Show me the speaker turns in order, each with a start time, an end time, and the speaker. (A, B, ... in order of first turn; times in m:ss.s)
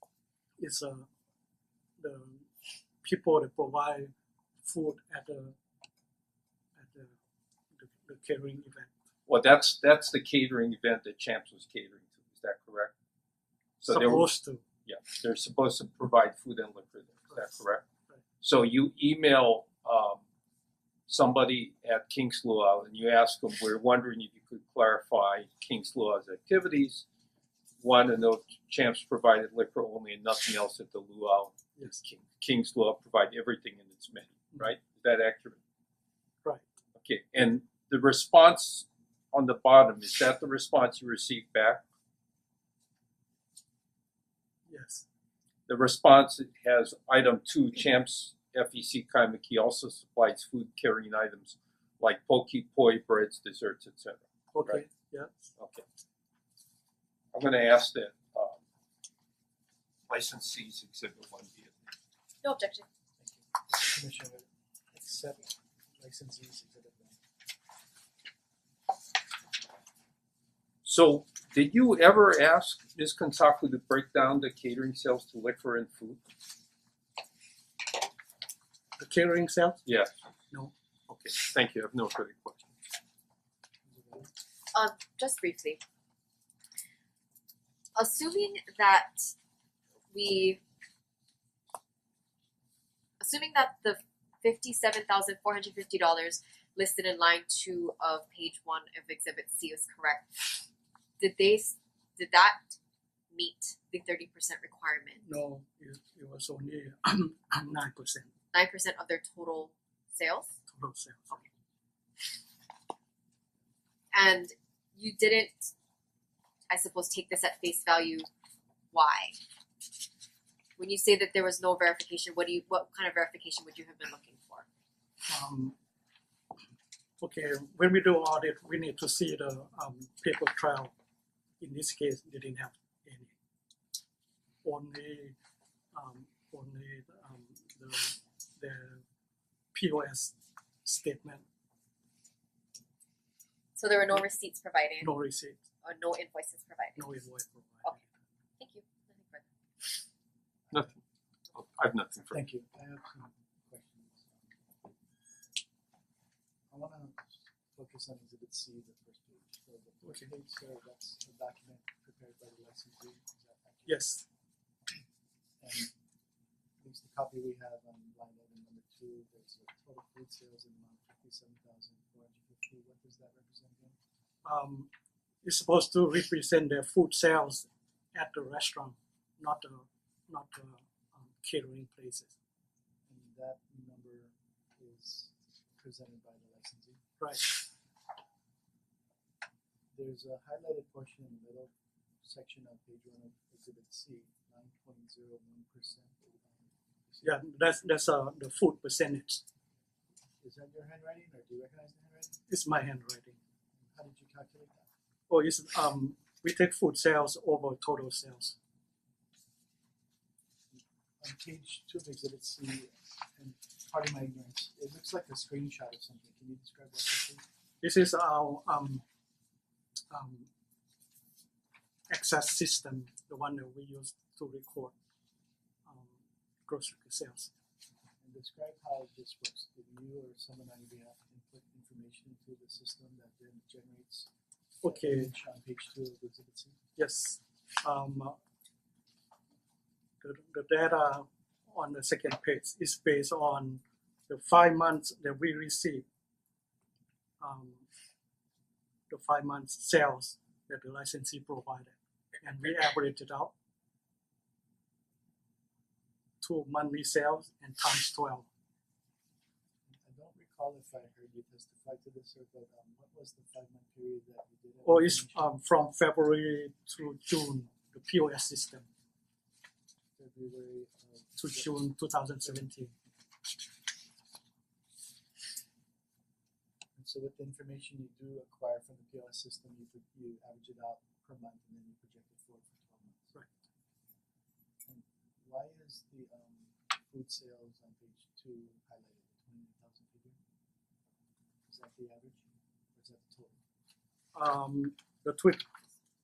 0:00.6-0:01.1 A
0:02.0-0:02.5 A
0:03.0-0:04.1 A
0:04.6-0:05.5 A
0:06.8-0:07.1 A
0:07.7-0:08.9 A
0:09.3-0:12.9 B
0:13.8-0:14.3 B
0:13.9-0:14.6 A
0:14.8-0:17.8 B
0:18.4-0:20.2 B
0:21.1-0:27.0 B
0:27.8-0:35.6 B
0:31.8-0:32.0 A
0:37.0-0:41.8 B
0:44.7-0:45.0 A
0:45.7-0:54.8 B
0:54.5-0:55.3 A
0:55.6-0:55.8 B
0:57.3-0:58.6 B
1:00.1-1:01.8 B
1:02.4-1:02.8 C
1:03.2-1:07.2 D
1:10.8-1:16.2 B
1:19.0-1:19.8 A
1:19.8-1:20.1 B
1:21.1-1:22.7 B
1:23.8-1:24.3 D
1:24.7-1:25.8 C
1:28.0-1:29.3 C
1:30.1-1:30.6 C
1:33.2-1:40.6 C
1:41.2-1:42.8 C
1:43.3-1:45.2 C
1:45.2-1:48.3 A
1:48.5-1:50.6 C
1:50.7-1:51.5 A
1:54.1-1:55.7 C
1:56.7-1:58.3 C
1:58.9-1:59.4 C
2:00.8-2:04.6 C
2:05.3-2:05.8 A
2:07.2-2:10.9 A
2:11.6-2:13.3 A
2:14.6-2:15.4 A
2:15.9-2:19.0 A
2:19.7-2:21.4 A
2:23.8-2:25.1 C
2:25.0-2:25.6 A
2:25.8-2:27.0 C
2:27.0-2:28.1 A
2:28.6-2:29.4 C
2:30.7-2:30.9 D
2:30.7-2:31.0 B
2:31.5-2:32.4 B
2:32.3-2:34.9 D
2:36.7-2:44.0 D
2:43.9-2:44.2 A
2:45.6-2:45.9 D
2:46.8-2:54.0 D
2:54.4-2:54.9 A
2:55.4-3:02.3 A
3:03.1-3:07.0 D
3:07.2-3:07.5 A
3:09.9-3:11.7 D
3:12.2-3:17.4 D
3:17.2-3:19.4 A
3:20.4-3:22.4 D
3:22.5-3:23.4 A
3:23.8-3:24.9 D
3:25.3-3:28.6 A
3:30.7-3:37.4 D
3:37.8-3:39.0 A
3:40.1-3:40.5 A
3:42.1-3:44.9 A
3:45.8-3:47.5 A
3:48.2-3:54.3 D
3:54.8-3:55.3 A
3:54.8-3:56.8 D
3:57.0-3:58.4 A
4:00.2-4:06.0 A
4:07.4-4:07.8 A
4:09.1-4:13.5 A
4:16.4-4:18.5 A
4:19.9-4:25.5 D
4:24.8-4:28.9 A
4:30.2-4:31.8 D
4:31.4-4:32.9 A
4:37.0-4:43.3 D
4:44.8-4:50.4 D
4:51.7-4:53.6 D
4:54.3-4:55.7 A